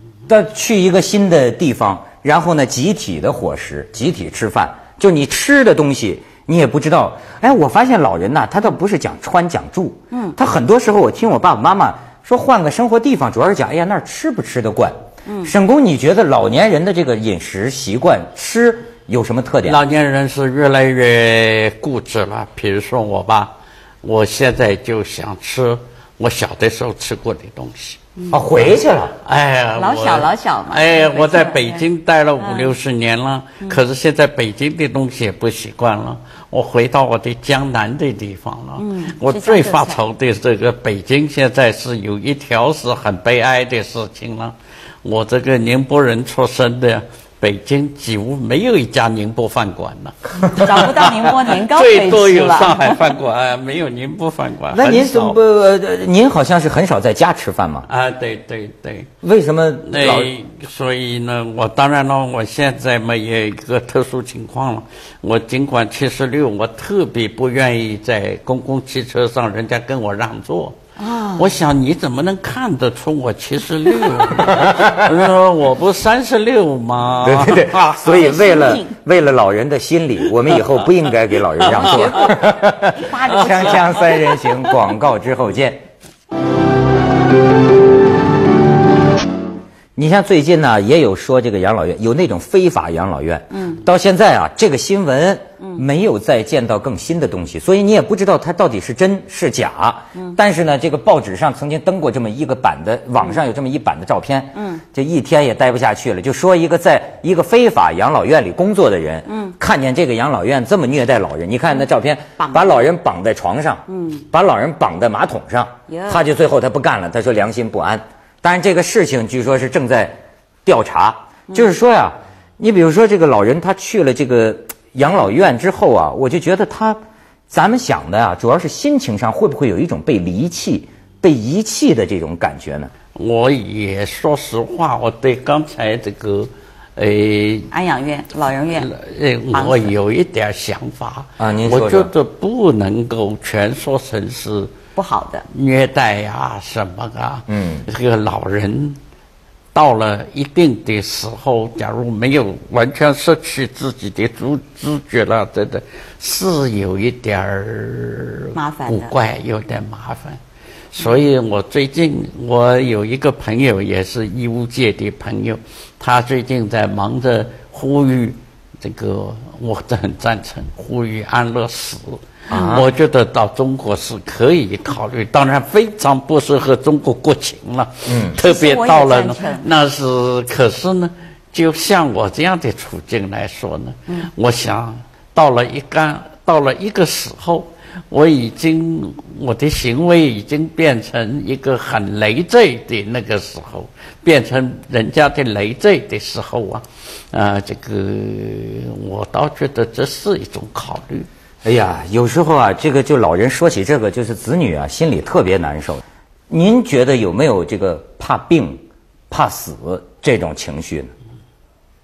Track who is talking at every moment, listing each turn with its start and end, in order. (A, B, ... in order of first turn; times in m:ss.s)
0:00.3-0:19.8 A
0:10.1-0:10.4 B
0:15.2-0:15.5 B
0:19.6-0:28.0 C
0:28.3-0:29.1 A
0:29.2-0:55.4 C
0:29.7-0:31.8 B
0:32.4-0:32.8 B
0:38.8-0:40.0 B
0:50.5-0:53.0 B
0:54.7-0:57.9 A
0:57.9-0:59.1 C
0:59.2-1:00.3 A
0:59.8-1:10.8 C
1:11.0-1:11.5 B
1:11.4-1:18.0 C
1:14.5-1:15.0 A
1:17.2-1:25.8 A
1:18.0-1:18.9 B
1:21.6-1:22.2 C
1:21.6-1:24.1 B
1:23.3-1:23.8 C
1:30.0-2:12.9 A
1:33.5-1:33.8 B
1:44.5-1:44.8 B
1:49.3-1:49.5 B
1:52.4-1:52.8 B
1:53.9-1:54.2 B
1:55.9-1:56.2 B
2:13.1-2:17.7 C
2:17.7-2:18.9 B
2:18.8-2:24.7 C
2:19.5-2:19.9 B
2:21.4-2:22.1 A
2:25.0-2:25.4 B
2:25.5-2:29.0 C
2:27.5-2:27.8 A
2:29.7-2:40.4 C
2:38.5-2:39.1 B
2:40.9-3:21.3 C
2:52.5-2:52.8 A
2:52.5-2:52.8 B
2:58.1-2:58.3 A
2:58.3-2:59.6 B
3:21.6-3:31.1 A